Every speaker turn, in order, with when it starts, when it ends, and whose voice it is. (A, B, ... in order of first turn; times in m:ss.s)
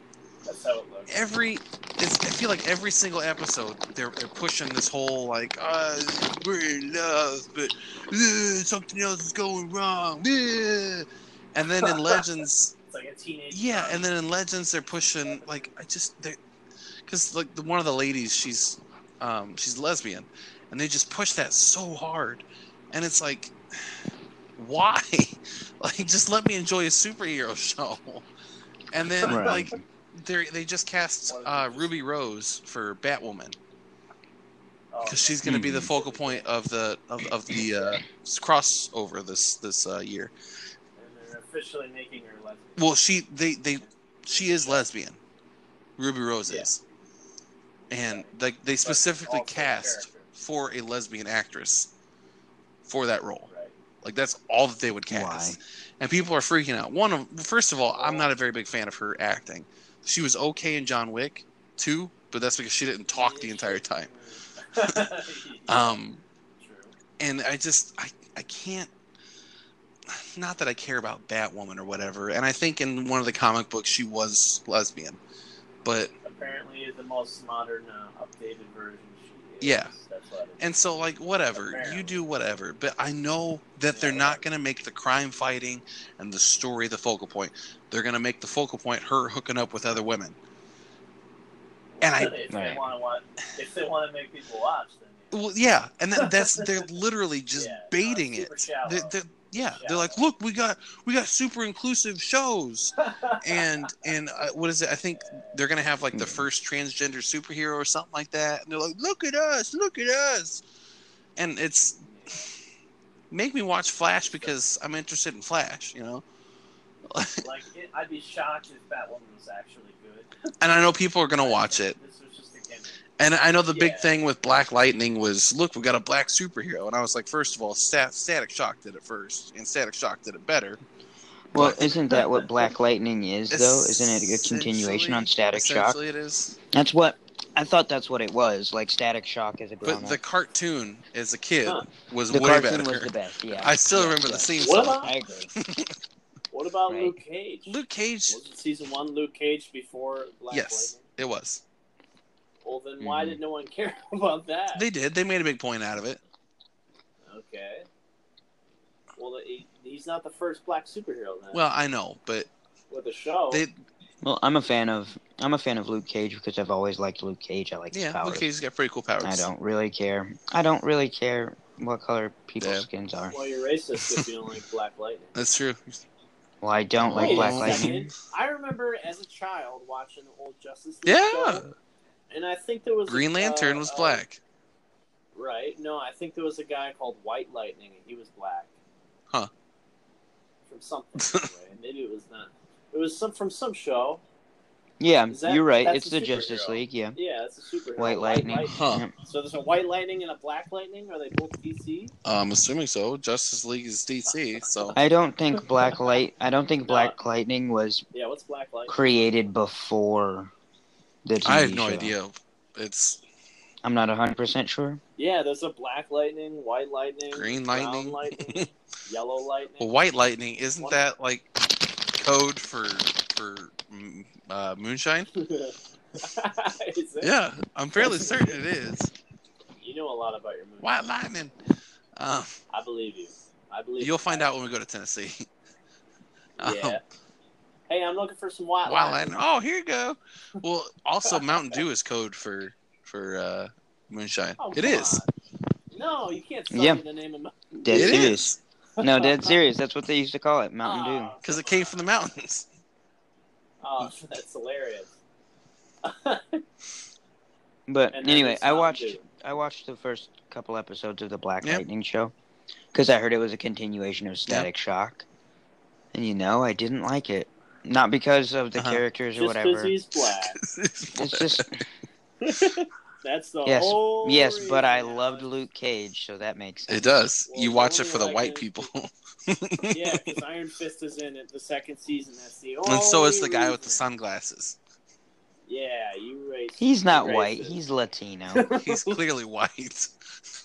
0:00.4-0:01.2 A
0:01.1-0:12.7 B
0:11.8-0:12.2 A
0:12.9-0:14.0 A
0:13.5-0:16.4 B
0:15.2-0:15.7 A
0:17.1-0:24.0 B
0:24.6-0:28.3 B
0:28.9-0:33.6 B
0:29.2-0:29.7 A
0:29.3-0:29.8 C
0:31.3-0:32.0 A
0:34.9-0:36.5 A
0:35.0-0:40.3 B
0:35.4-0:35.9 C
0:41.0-0:42.9 A
0:42.8-0:45.2 B
0:43.8-0:44.9 A
0:46.0-0:46.8 B
0:47.9-0:51.9 B
0:47.9-0:48.3 A
0:48.8-0:50.3 A
0:52.9-0:53.5 B
0:53.5-0:53.8 A
0:54.0-1:04.1 B
0:55.1-0:55.6 C
0:57.9-0:58.3 A
1:03.1-1:06.0 A
1:05.7-1:06.2 B
1:06.6-1:06.9 A
1:07.2-1:08.9 B
1:10.1-1:15.2 B
1:15.8-1:16.1 B
1:16.2-1:21.0 A
1:19.6-1:19.9 B
1:20.6-1:30.4 B
1:21.5-1:22.3 A
1:23.9-1:24.4 A
1:32.0-1:35.5 A
1:32.0-1:32.4 B
1:32.5-1:32.8 C
1:35.3-1:50.6 B
1:36.2-1:36.8 A
1:37.6-1:39.1 A
1:39.8-1:40.2 A
1:43.0-1:44.1 A
1:45.1-1:45.6 A
1:46.1-1:46.4 C
1:51.4-1:52.0 B
1:52.0-1:52.5 A
1:53.3-1:56.2 B
1:57.1-1:57.4 B
1:57.4-2:00.4 A
2:00.6-2:02.0 B
2:01.4-2:03.0 A
2:03.2-2:10.8 B
2:03.7-2:04.1 A
2:11.5-2:16.0 C
2:11.5-2:12.0 B
2:12.1-2:12.5 A
2:13.5-2:16.6 B
2:16.7-2:20.2 C
2:19.8-2:25.9 B
2:22.3-2:25.4 C
2:24.6-2:25.5 A
2:26.5-2:31.1 A
2:26.9-2:27.2 C
2:27.7-2:28.4 B
2:30.5-2:31.6 B
2:32.6-2:34.9 A
2:33.0-2:33.4 C
2:34.8-2:36.2 B
2:37.3-2:37.9 A
2:39.2-2:41.6 A
2:41.5-2:42.5 B
2:42.9-2:43.6 A
2:44.2-2:48.4 C
2:47.9-2:49.5 B
2:49.2-2:53.4 C
2:52.6-2:52.9 B
2:53.3-2:55.4 A
2:55.4-2:56.0 B
2:56.6-2:57.9 C
2:57.0-2:58.0 B
2:57.1-3:01.6 A
3:01.1-3:01.8 B
3:02.3-3:04.2 A
3:03.1-3:04.4 B
3:05.4-3:08.7 A
3:10.7-3:14.2 A
3:11.2-3:11.5 B
3:15.0-3:17.2 C
3:15.3-3:22.1 A
3:18.0-3:19.1 C
3:18.7-3:19.1 B
3:22.2-3:25.0 B
3:25.0-3:28.0 C
3:25.8-3:26.1 A
3:26.8-3:27.2 A
3:28.1-3:29.3 A
3:28.9-3:30.5 C
3:31.2-3:32.1 C
3:31.4-3:33.2 B
3:33.8-3:35.0 C
3:35.2-3:39.9 A
3:37.3-3:38.6 B
3:39.8-3:41.5 B
3:40.8-3:41.0 A
3:42.2-3:45.3 B
3:45.4-3:47.3 A
3:47.2-3:49.1 B
3:48.0-3:48.6 A
3:49.8-3:51.0 A
3:50.8-3:51.6 B
3:52.2-3:52.5 B
3:52.7-3:54.5 A
3:54.0-3:55.5 B
3:56.6-3:57.0 A
3:56.6-3:57.0 B
3:57.9-3:59.4 A
3:58.8-4:05.2 B
4:01.3-4:01.8 A
4:04.6-4:05.3 A
4:05.9-4:08.4 A
4:06.7-4:07.0 C
4:07.8-4:11.3 C
4:07.9-4:08.6 B
4:09.0-4:09.6 A
4:10.8-4:12.1 A
4:11.4-4:12.7 B
4:13.8-4:15.1 A
4:16.0-4:16.6 A
4:17.9-4:22.3 C
4:18.1-4:19.2 A
4:22.9-4:25.2 C
4:26.1-4:29.9 C
4:28.8-4:29.0 B
4:29.4-4:30.6 A
4:30.6-4:31.7 B
4:31.1-4:31.8 C
4:32.4-4:35.5 A
4:33.6-4:37.1 C
4:36.9-4:40.4 B
4:37.5-4:38.9 A
4:39.9-4:44.0 A
4:42.8-4:44.8 B
4:45.7-4:47.8 A
4:46.8-4:48.6 C
4:48.5-4:49.2 A
4:48.8-4:50.1 B